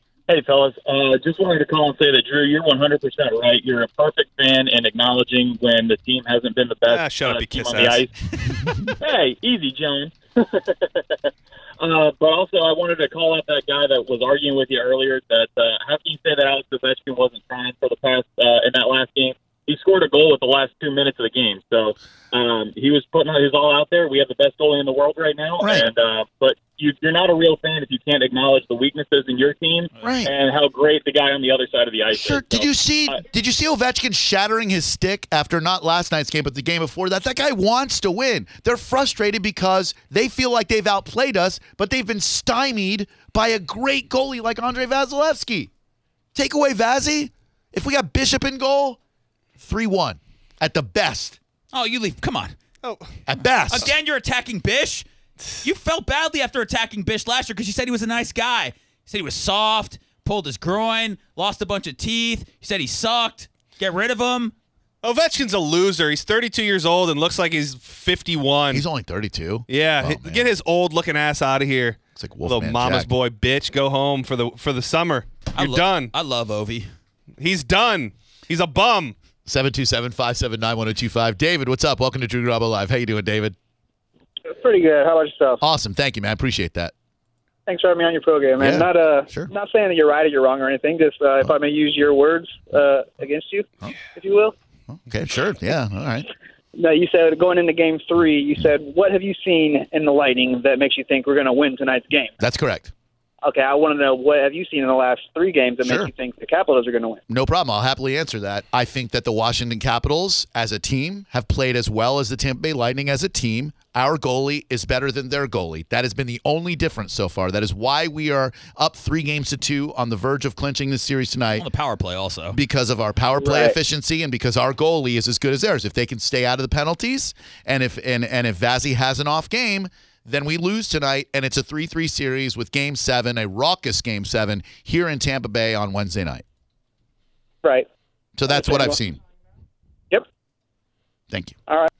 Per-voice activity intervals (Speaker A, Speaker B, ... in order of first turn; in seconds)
Speaker A: 0.3-8.1, 8.7-11.2, 11.8-33.2
Speaker B: 6.9-8.1, 52.8-53.1, 65.0-68.8, 69.7-76.1, 77.4-79.1
Speaker C: 25.6-25.9, 30.0-30.3, 32.1-45.7, 46.3-49.0, 49.6-51.4, 53.3-53.9, 68.7-70.5, 72.2-73.1, 79.5-83.5, 85.6-86.9, 88.6-89.5, 94.9-96.3, 102.4-102.9, 105.8-106.1, 107.3-121.7, 122.5-136.4, 138.4-139.2, 141.3-141.6
Speaker D: 51.7-52.6, 53.7-55.1, 55.6-64.5, 75.5-76.9, 121.5-122.6
Speaker E: 84.5-85.6, 87.7-94.5, 96.8-102.3, 103.4-107.2, 138.4-139.0